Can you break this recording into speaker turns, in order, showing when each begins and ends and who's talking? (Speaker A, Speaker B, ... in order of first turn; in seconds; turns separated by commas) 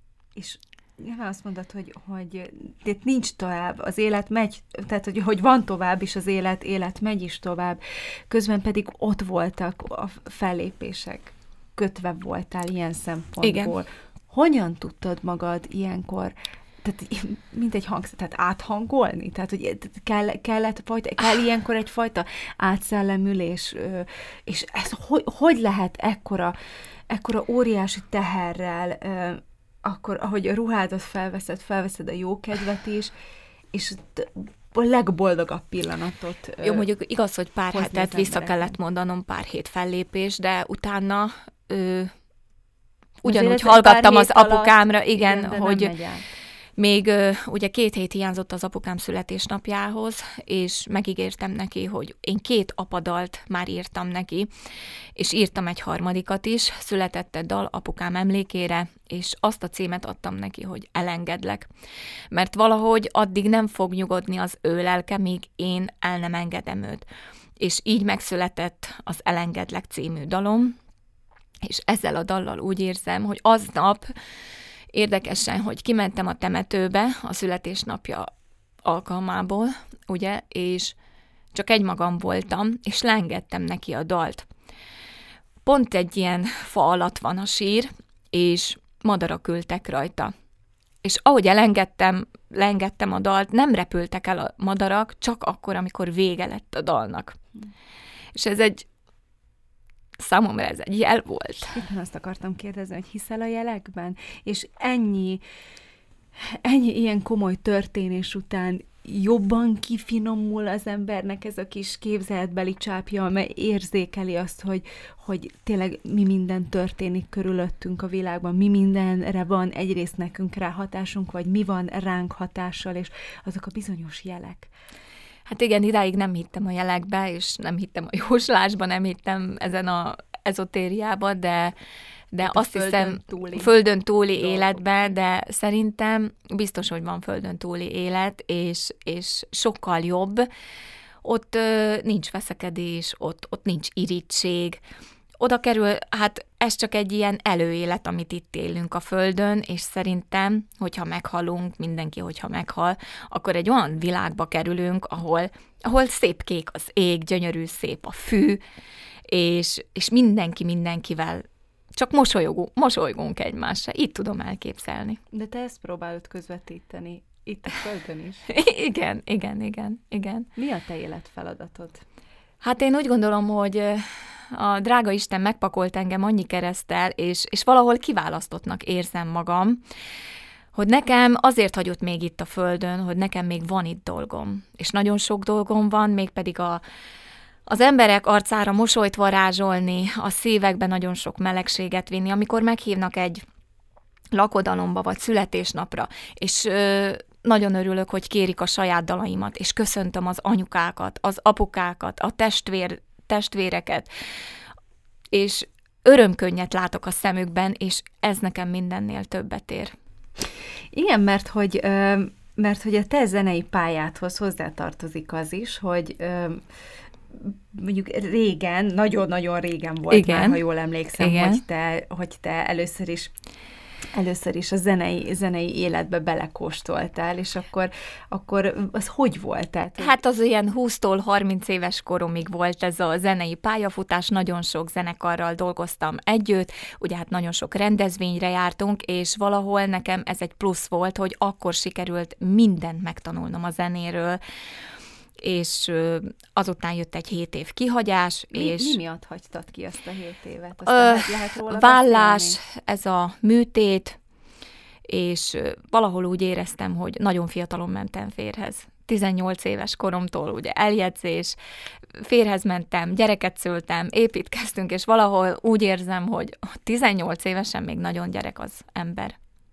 Speaker A: 0.3-26.6, Speaker B: 13.4-13.7, Speaker A: 27.1-33.1, Speaker A: 33.7-36.9, Speaker B: 36.6-42.1, Speaker A: 37.7-38.7, Speaker B: 43.2-45.9, Speaker A: 43.2-46.3, Speaker B: 46.8-54.5, Speaker B: 55.2-61.7, Speaker B: 62.3-67.0, Speaker B: 67.6-70.8, Speaker B: 71.6-74.1, Speaker B: 74.9-78.3, Speaker B: 78.8-80.9, Speaker B: 81.5-84.5, Speaker B: 85.6-90.3, Speaker B: 91.0-97.4, Speaker B: 98.3-98.8, Speaker B: 100.2-101.8, Speaker A: 101.7-105.4, Speaker A: 106.4-124.7, Speaker B: 125.5-131.7, Speaker B: 132.3-140.5, Speaker A: 132.4-133.7, Speaker A: 134.3-135.1, Speaker B: 141.2-144.8, Speaker B: 145.4-158.6, Speaker B: 159.3-165.2, Speaker A: 165.3-168.5, Speaker B: 168.5-170.5, Speaker A: 170.6-172.0, Speaker B: 172.6-179.8, Speaker B: 180.7-186.8, Speaker B: 187.7-193.4, Speaker B: 194.3-204.1, Speaker B: 205.3-209.9, Speaker A: 210.4-216.6, Speaker A: 217.3-223.3, Speaker B: 220.1-220.6, Speaker B: 221.2-221.6, Speaker A: 224.1-230.1, Speaker B: 230.0-244.4, Speaker B: 245.4-249.0, Speaker A: 248.5-252.6, Speaker B: 250.9-254.2, Speaker B: 255.1-261.6, Speaker B: 262.1-269.4